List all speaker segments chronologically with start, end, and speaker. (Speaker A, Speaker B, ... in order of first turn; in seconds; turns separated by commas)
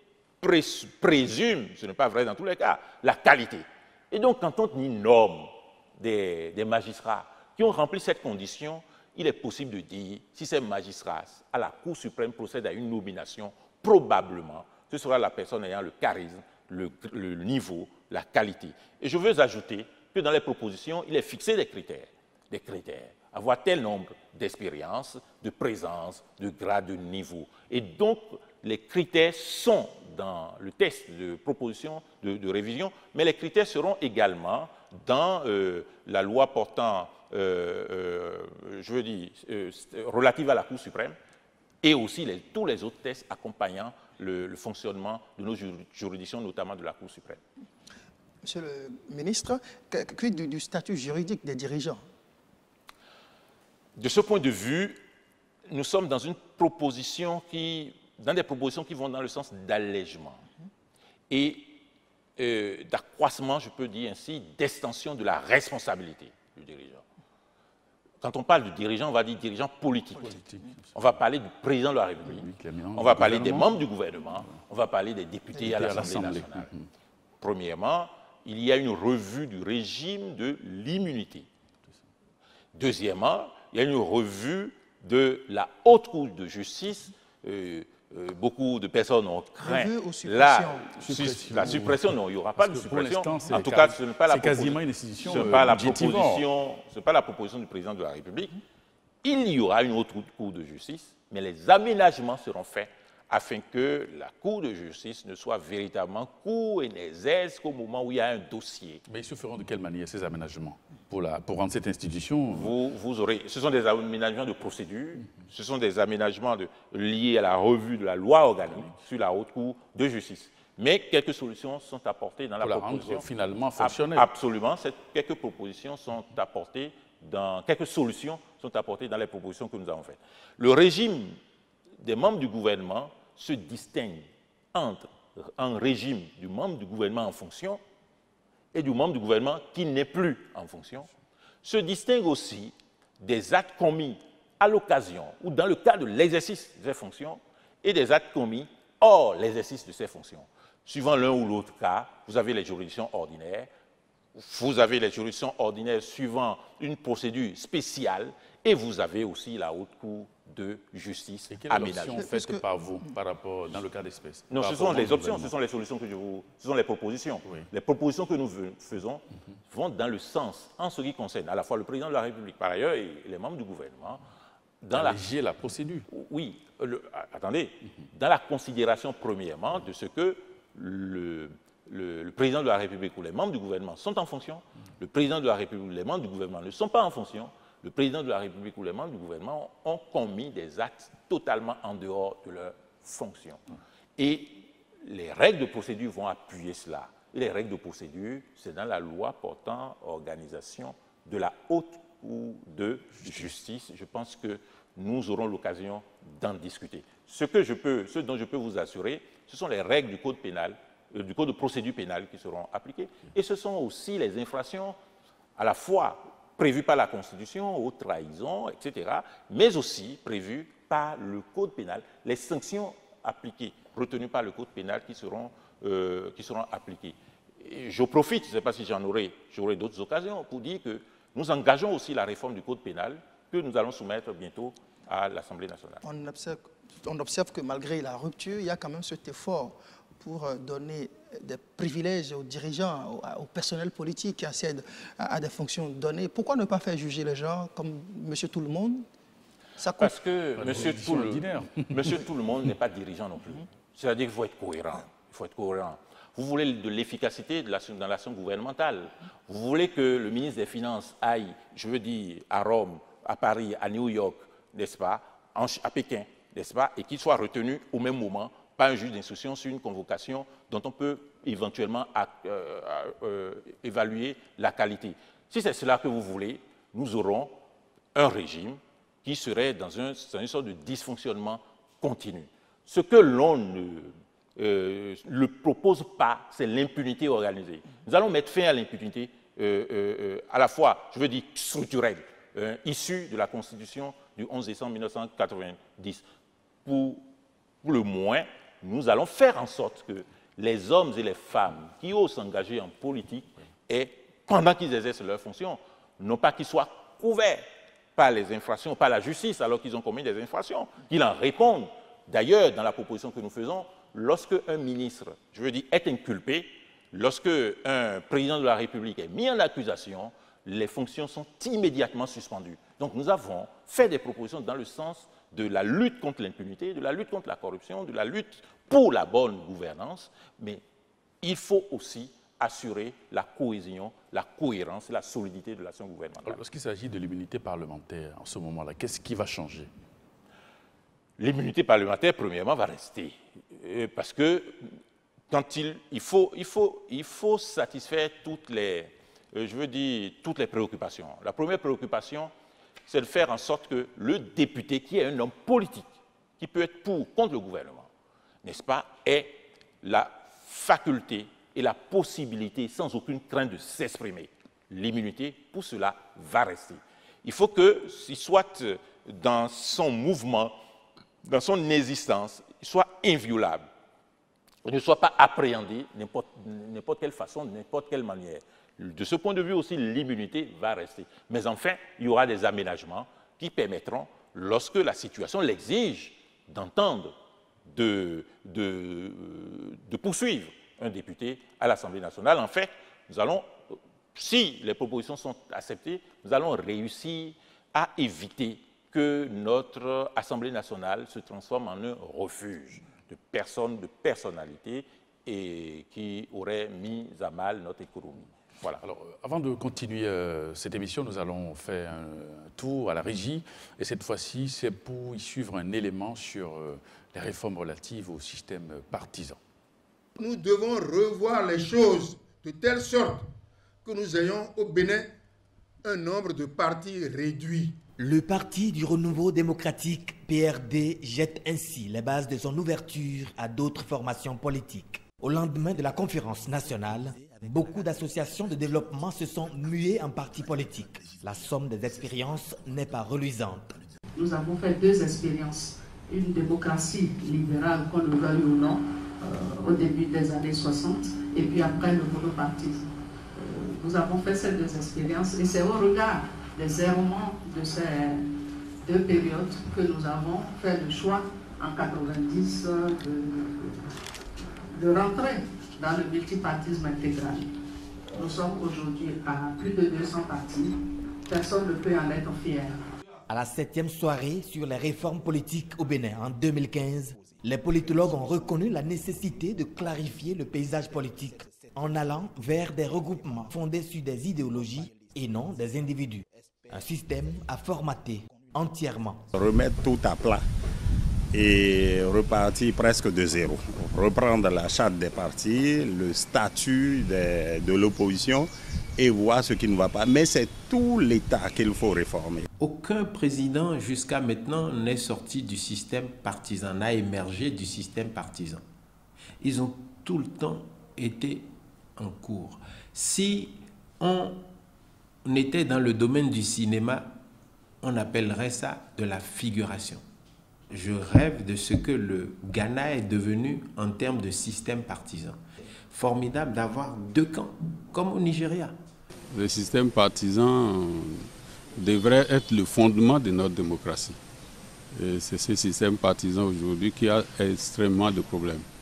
Speaker A: 0.4-41.2, Speaker A: 41.8-47.4, Speaker B: 48.4-52.0, Speaker A: 54.0-55.0, Speaker A: 55.7-60.5, Speaker A: 61.3-61.8, Speaker A: 62.4-67.0, Speaker A: 68.2-70.4, Speaker C: 70.2-70.9, Speaker A: 71.0-76.7, Speaker C: 72.2-73.7, Speaker C: 75.6-76.9, Speaker A: 77.4-81.5, Speaker A: 82.8-98.6, Speaker B: 89.6-90.9, Speaker C: 91.0-96.5, Speaker A: 99.2-109.0, Speaker C: 109.1-112.7, Speaker A: 112.5-123.3, Speaker C: 122.6-124.3, Speaker A: 123.8-131.4, Speaker A: 132.0-137.8, Speaker A: 138.7-141.1, Speaker A: 141.6-153.7, Speaker A: 154.3-162.3, Speaker C: 161.5-165.5, Speaker B: 162.2-162.6, Speaker A: 164.5-174.2, Speaker A: 174.8-175.2, Speaker C: 174.9-176.1, Speaker A: 176.1-193.6, Speaker A: 194.2-215.0, Speaker A: 215.6-236.0, Speaker B: 236.0-249.1, Speaker B: 249.8-250.1, Speaker A: 250.0-277.6, Speaker C: 250.6-252.2, Speaker A: 278.1-296.2, Speaker A: 296.9-297.2, Speaker A: 297.8-330.8, Speaker A: 331.4-336.6, Speaker C: 336.4-339.9, Speaker A: 341.4-345.0, Speaker A: 345.5-352.5, Speaker A: 353.1-358.1, Speaker A: 358.6-370.8, Speaker A: 371.4-373.9, Speaker A: 374.8-387.4, Speaker A: 387.9-409.0, Speaker C: 409.0-419.6, Speaker D: 420.4-423.5, Speaker D: 424.1-425.3, Speaker D: 426.0-427.9, Speaker E: 428.2-444.0, Speaker F: 444.4-458.5, Speaker F: 459.0-464.1, Speaker F: 464.9-467.7, Speaker F: 468.3-473.0, Speaker E: 473.5-489.5, Speaker G: 489.5-490.6, Speaker G: 491.5-502.6, Speaker H: 502.8-508.8, Speaker H: 509.6-514.7, Speaker H: 515.4-517.4, Speaker H: 518.0-520.2, Speaker H: 520.9-529.0, Speaker I: 529.5-534.4, Speaker I: 535.1-538.9